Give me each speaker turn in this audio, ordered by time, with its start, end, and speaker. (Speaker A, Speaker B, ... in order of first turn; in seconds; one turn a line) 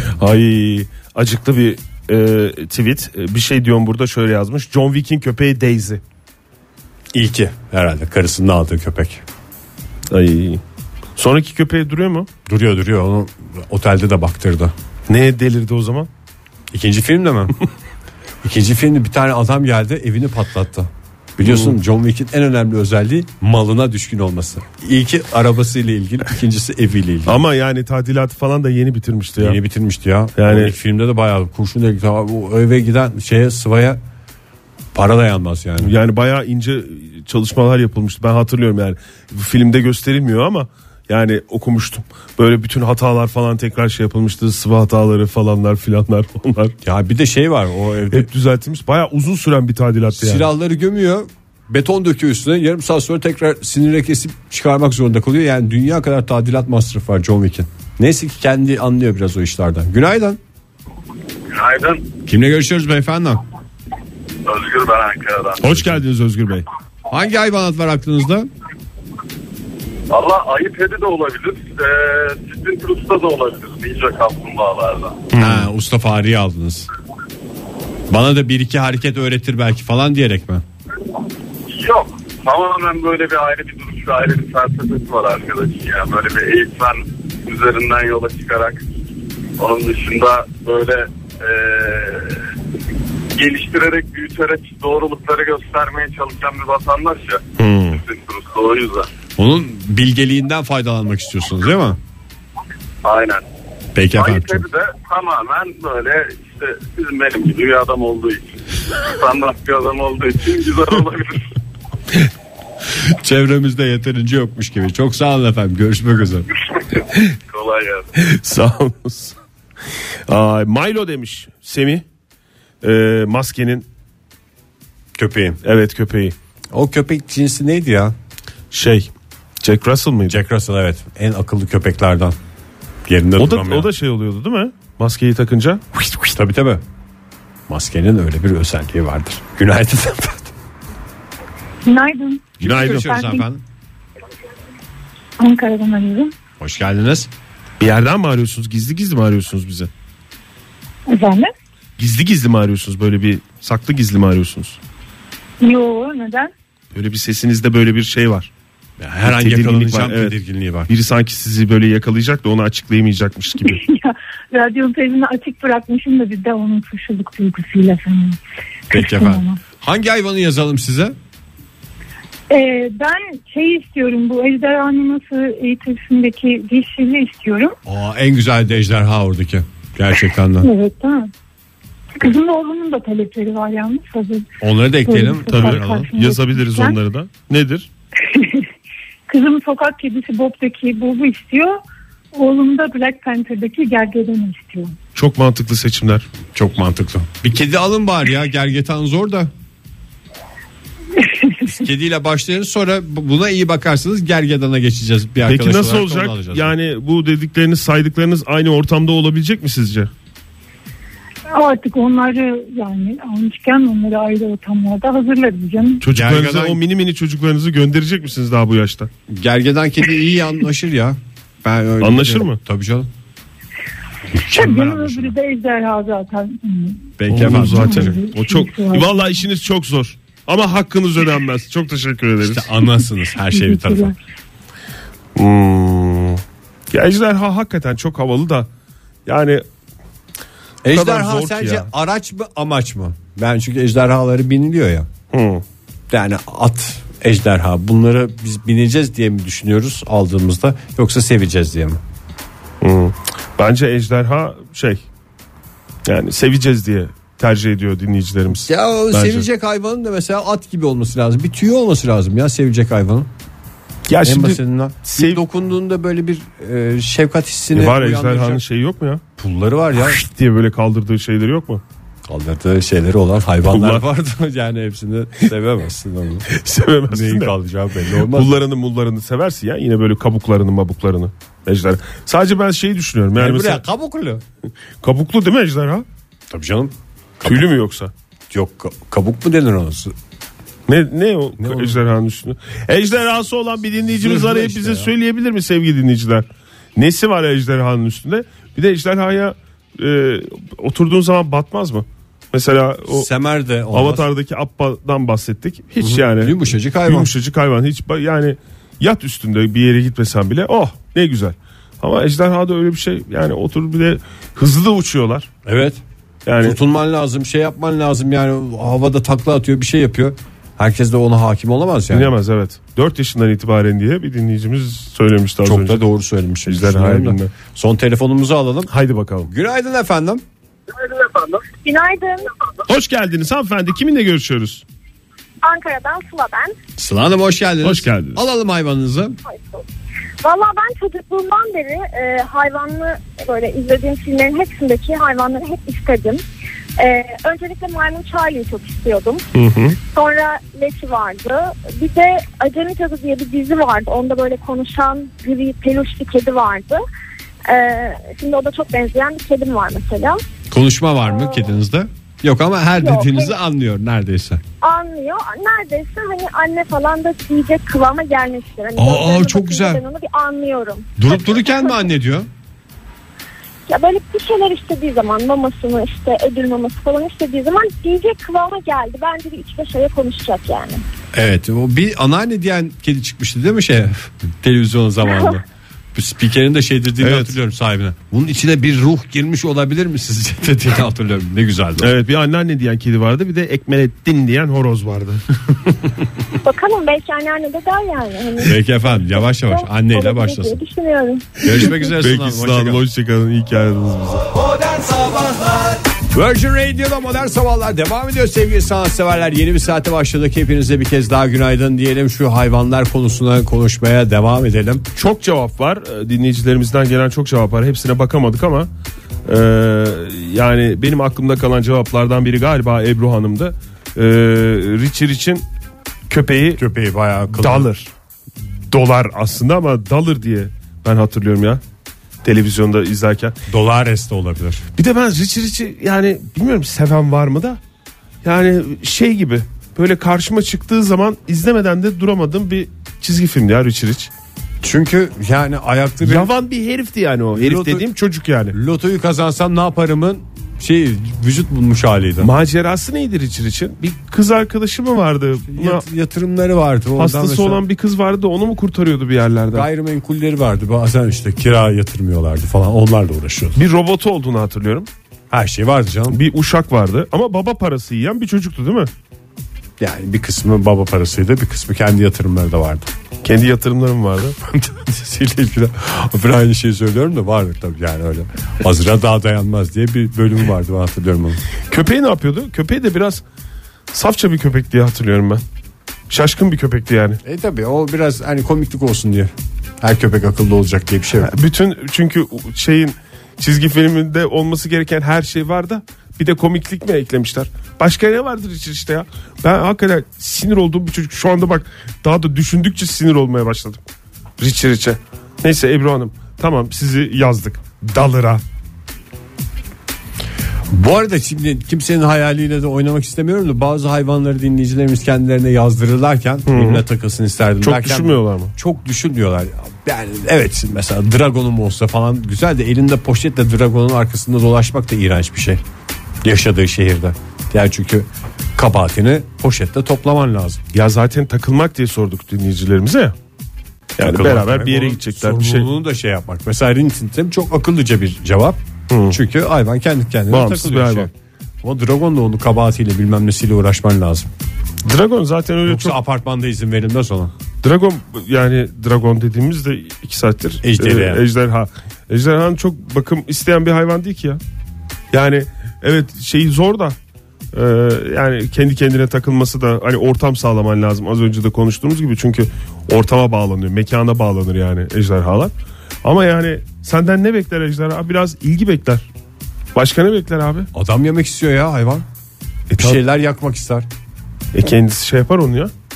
Speaker A: 0.2-6.0
Speaker B: 7.1-9.2
Speaker A: 10.1-10.6
Speaker A: 11.2-12.3
Speaker B: 12.4-14.7
Speaker A: 15.1-16.1
Speaker B: 16.7-17.6
Speaker B: 18.4-27.4
Speaker A: 21.4-21.8
Speaker A: 27.2-29.6
Speaker B: 29.4-34.0
Speaker A: 30.4-30.8
Speaker B: 34.9-35.9
Speaker A: 35.8-46.8
Speaker B: 46.8-48.3
Speaker A: 48.1-50.5
Speaker B: 50.1-60.4
Speaker C: 61.5-62.0
Speaker B: 62.2-63.4
Speaker C: 64.4-65.6
Speaker A: 65.6-66.7
Speaker B: 67.1-68.5
Speaker C: 70.1-75.2
Speaker A: 75.3-75.7
Speaker B: 75.4-76.9
Speaker B: 78.1-80.6
Speaker C: 81.7-88.9
Speaker C: 89.6-92.4
Speaker C: 93.3-99.1
Speaker A: 97.6-98.0
Speaker B: 99.4-102.0
Speaker C: 103.0-103.4
Speaker B: 103.9-104.6
Speaker C: 104.1-111.5
Speaker B: 113.0-116.5
Speaker C: 116.9-118.1
Speaker A: 118.2-119.4
Speaker A: 120.3-122.0
Speaker A: 122.8-123.8
Speaker B: 125.2-125.6
Speaker A: 125.6-126.3
Speaker B: 126.7-128.1
Speaker A: 128.7-130.4
Speaker B: 130.3-132.3
Speaker B: 133.1-133.9
Speaker A: 133.4-135.8
Speaker B: 136.3-136.8
Speaker B: 137.7-140.5
Speaker D: 141.8-143.4
Speaker B: 142.6-143.6
Speaker A: 142.6-143.2
Speaker D: 145.4-146.3
Speaker B: 146.6-147.3
Speaker A: 147.8-149.9
Speaker D: 151.1-151.5
Speaker A: 152.0-154.8
Speaker D: 155.6-156.5
Speaker A: 156.9-158.5
Speaker B: 159.0-160.9
Speaker A: 159.2-163.8
Speaker D: 163.6-168.4
Speaker D: 168.9-169.6
Speaker B: 168.9-171.2
Speaker D: 172.5-177.8
Speaker B: 177.8-180.7
Speaker D: 180.6-181.3
Speaker D: 182.2-184.5
Speaker B: 184.6-186.1
Speaker D: 185.1-186.9
Speaker A: 185.5-187.9
Speaker D: 188.2-188.7
Speaker D: 189.3-191.8
Speaker D: 192.3-195.0
Speaker A: 195.1-196.2
Speaker B: 196.5-199.5
Speaker D: 201.2-201.7
Speaker B: 201.6-206.7
Speaker A: 205.4-210.1
Speaker D: 211.5-216.0
Speaker A: 216.0-219.1
Speaker B: 216.1-216.8
Speaker B: 219.3-223.1
Speaker A: 222.0-222.6
Speaker D: 224.5-229.2
Speaker A: 224.5-225.3
Speaker B: 227.2-228.2
Speaker A: 227.3-232.8
Speaker B: 232.4-234.2
Speaker D: 233.4-234.1
Speaker A: 235.3-238.7
Speaker A: 239.2-239.6
Speaker B: 240.8-245.1
Speaker A: 240.9-241.9
Speaker A: 245.3-245.6
Speaker B: 246.1-252.0
Speaker A: 252.8-255.1
Speaker A: 256.1-259.5
Speaker B: 258.6-263.3
Speaker A: 264.1-265.4
Speaker B: 264.2-268.6
Speaker A: 267.7-269.2
Speaker B: 269.4-270.2
Speaker A: 269.9-271.8
Speaker B: 272.3-276.5
Speaker A: 273.7-274.0
Speaker A: 276.5-277.5
Speaker B: 277.1-278.6
Speaker A: 278.2-283.8
Speaker B: 283.4-284.4
Speaker A: 285.0-286.1
Speaker B: 286.5-287.6
Speaker A: 287.4-288.1
Speaker B: 288.5-290.1
Speaker A: 290.9-303.3
Speaker B: 291.6-292.0
Speaker B: 294.1-295.1
Speaker B: 303.1-304.2
Speaker A: 303.9-315.5
Speaker B: 306.0-307.3
Speaker B: 315.6-316.0
Speaker A: 316.4-316.8
Speaker B: 316.6-322.3
Speaker A: 322.1-326.0
Speaker B: 325.6-328.9
Speaker A: 326.6-327.5
Speaker A: 328.9-329.5
Speaker B: 329.5-330.4
Speaker E: 331.8-332.5
Speaker A: 332.9-334.8
Speaker E: 335.6-336.8
Speaker B: 337.0-339.4
Speaker A: 337.8-338.4
Speaker E: 339.5-339.8
Speaker E: 340.4-346.4
Speaker E: 347.0-349.4
Speaker A: 349.5-350.0
Speaker E: 350.1-357.0
Speaker E: 357.6-360.4
Speaker B: 360.7-364.6
Speaker E: 361.3-361.6
Speaker E: 363.0-363.6
Speaker E: 364.8-372.1
Speaker B: 369.0-370.0
Speaker B: 371.2-372.5
Speaker E: 373.9-381.0
Speaker B: 381.3-392.1
Speaker E: 385.3-385.5
Speaker A: 387.2-387.6
Speaker A: 392.0-395.4
Speaker E: 396.6-402.0
Speaker B: 398.6-400.7
Speaker B: 401.6-403.0
Speaker A: 401.7-404.5
Speaker B: 406.3-415.1
Speaker A: 415.1-418.9
Speaker A: 419.4-425.6
Speaker A: 426.3-426.8
Speaker B: 426.8-427.9
Speaker A: 427.5-428.1
Speaker A: 428.9-431.8
Speaker A: 432.4-433.6
Speaker B: 433.7-434.8
Speaker A: 434.9-437.8
Speaker A: 438.4-444.3
Speaker B: 444.8-446.5
Speaker A: 446.2-448.8
Speaker B: 447.6-448.0
Speaker B: 448.7-452.5
Speaker A: 452.4-456.0
Speaker B: 455.7-457.8
Speaker A: 457.2-459.9
Speaker B: 459.7-463.8
Speaker A: 463.8-465.1
Speaker B: 465.5-466.4
Speaker A: 466.3-469.1
Speaker B: 470.0-473.1
Speaker A: 473.4-474.6
Speaker B: 474.7-481.6
Speaker A: 481.9-483.4
Speaker A: 484.1-485.6
Speaker A: 486.3-487.4
Speaker B: 487.4-491.5
Speaker A: 491.4-504.0
Speaker A: 504.6-508.6
Speaker B: 510.9-525.8
Speaker A: 516.6-517.0
Speaker A: 517.8-518.7
Speaker B: 526.4-530.8
Speaker A: 530.9-533.3
Speaker A: 534.2-535.9
Speaker B: 534.2-541.3
Speaker A: 539.1-539.4
Speaker A: 540.5-541.3
Speaker B: 541.8-544.5
Speaker A: 545.0-546.2
Speaker B: 545.9-547.5
Speaker A: 547.8-554.6
Speaker B: 550.8-551.4
Speaker A: 555.3-557.1
Speaker A: 557.7-569.3
Speaker A: 569.9-570.9
Speaker B: 570.9-572.2
Speaker A: 572.9-573.2
Speaker B: 573.0-574.0
Speaker A: 574.7-575.9